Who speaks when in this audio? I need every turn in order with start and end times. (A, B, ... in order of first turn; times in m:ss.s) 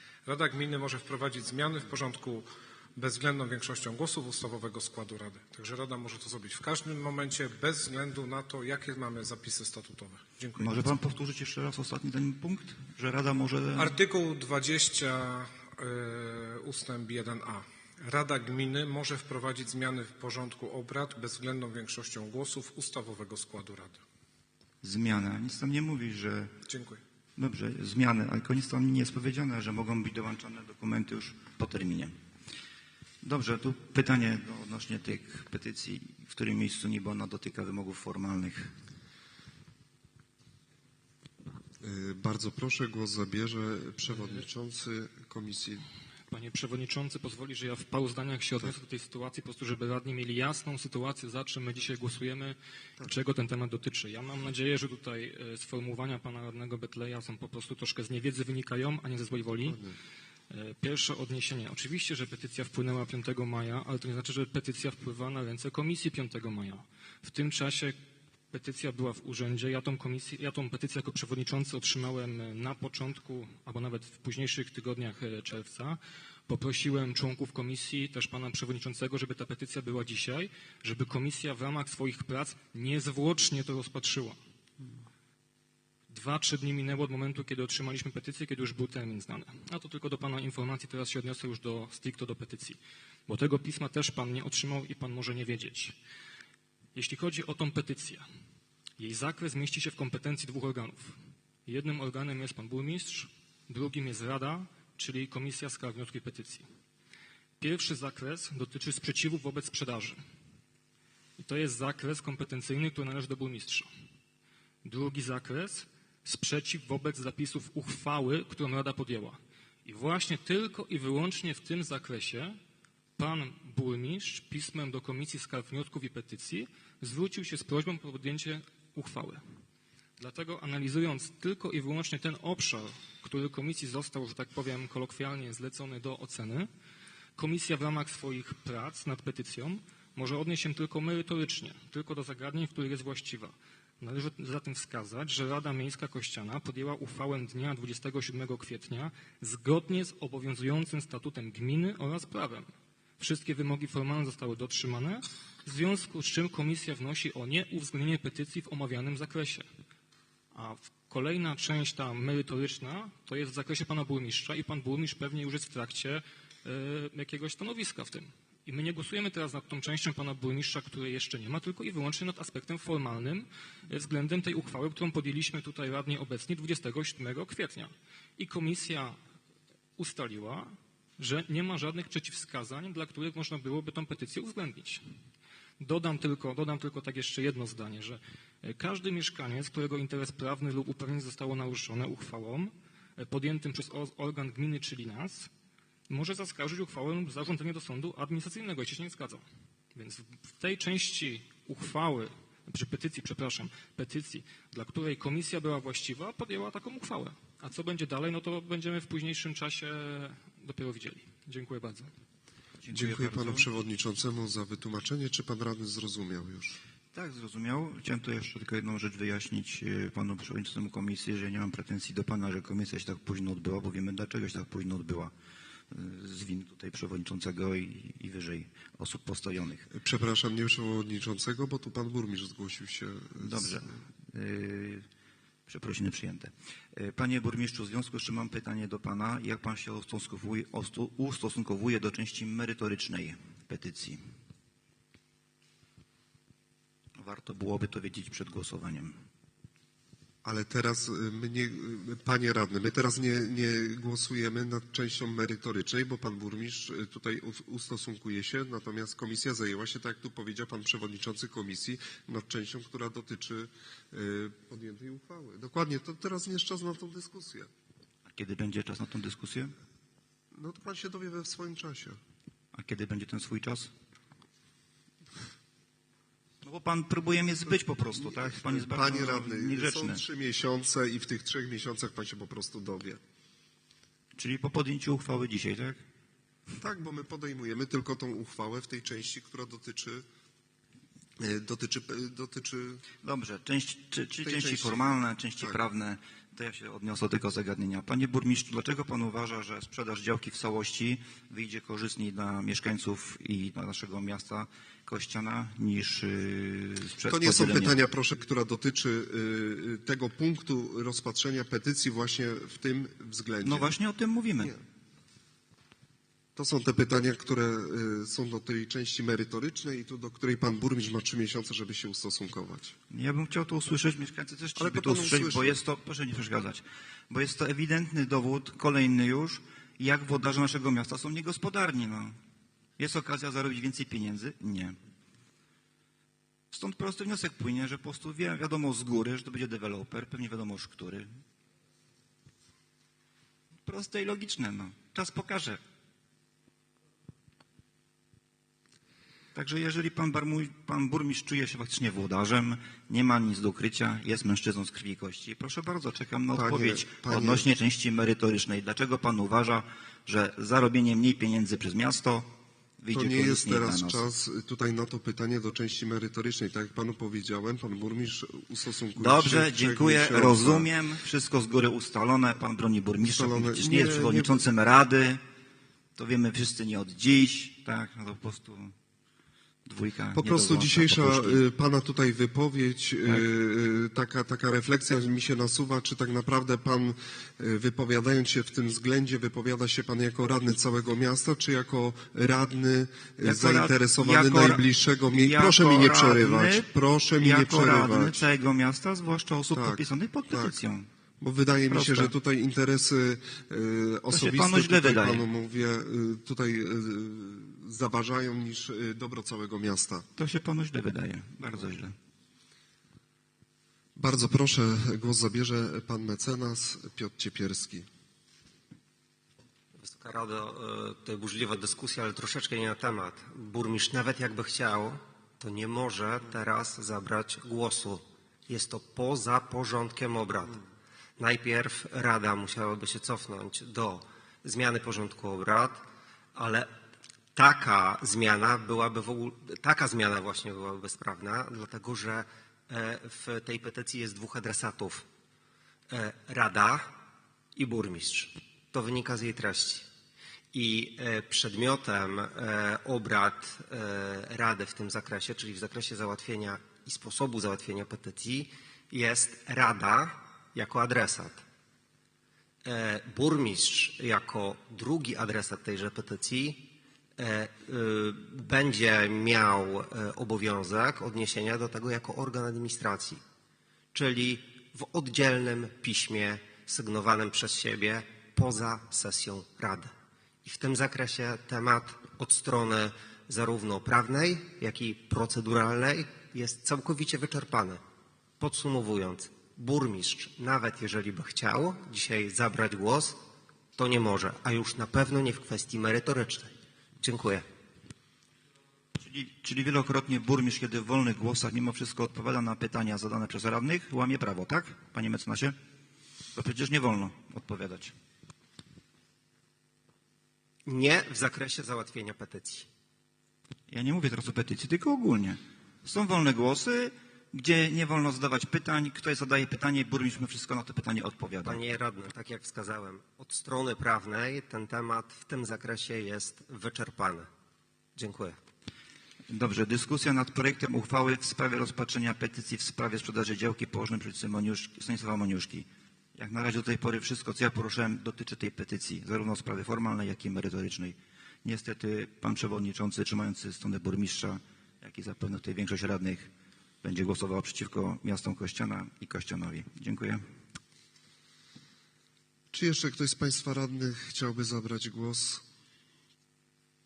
0:00.2-0:10.9 A
0:10.6-0:13.9 B
0:13.8-0:24.0 A
0:24.8-0:26.5 B
0:26.7-0:27.0 A
0:27.4-0:32.1 B
0:33.2-0:38.7 B
0:41.8-0:45.8 C
0:46.3-0:59.8 D
0:59.6-1:00.0 C
1:00.5-1:08.0 D
1:08.5-1:24.4 D
1:26.1-1:36.0 D
1:36.9-1:38.2 D
1:39.0-1:46.6 D
1:47.6-1:50.2 D
1:51.4-1:53.9 D
1:54.8-2:02.6 D
2:03.2-2:09.4 D
2:10.2-2:16.7 D
2:17.4-2:39.7 D
2:40.5-2:59.2 D
3:00.0-3:05.0 D
3:05.8-3:15.5 D
3:16.1-3:32.1 D
3:32.8-3:33.7 B
3:32.9-3:36.8 C
3:37.1-3:45.3 B
3:45.9-3:49.9 B
3:49.9-3:53.8 C
3:53.4-3:55.0 B
3:55.7-4:04.2 B
4:07.2-4:09.2 B
4:10.4-4:27.7 C
4:28.3-4:29.7 B
4:30.5-4:32.2 C
4:32.7-4:33.9 B
4:36.6-4:40.2 B
4:38.2-4:43.2 C
4:44.4-4:46.0 B
4:46.8-4:50.2 C
4:51.4-4:53.0 C
4:53.2-5:07.9 B
4:54.4-4:55.8 C
5:07.2-5:14.0 C
5:13.6-5:14.7 B
5:16.6-5:23.0 C
5:23.1-5:32.4 B
5:24.8-5:25.8 C
5:33.0-5:35.0 B
5:36.7-5:41.3 B
5:43.8-5:45.8 B
5:49.5-6:04.2 B
5:56.5-5:57.7 C
6:03.1-6:10.9 C
6:09.2-6:15.4 B
6:13.2-6:14.7 C
6:16.2-6:18.9 B
6:19.8-6:21.6 B
6:20.3-6:38.5 C
6:33.5-6:36.9 B
6:37.4-6:41.1 B
6:39.7-6:40.8 C
6:41.4-6:50.3 C
6:41.9-6:42.3 B
6:44.3-6:45.4 B
6:50.4-6:52.1 B
6:54.2-6:58.1 C
7:00.0-7:10.8 E
7:11.4-7:16.9 E
7:17.5-7:25.3 E
7:26.1-7:27.2 E
7:27.8-7:30.1 E
7:30.7-7:41.6 E
7:42.8-7:53.4 E
7:54.1-8:00.1 E
8:00.6-8:08.0 E
8:08.6-8:13.4 E
8:13.9-8:17.6 E
8:19.2-8:25.8 B
8:26.5-8:28.1 B
8:30.8-8:32.9 E
8:33.9-8:41.8 B
8:41.6-8:47.5 E
8:48.2-8:48.6 E
8:49.5-9:06.5 B
9:07.0-9:10.4 B
9:12.7-9:15.6 C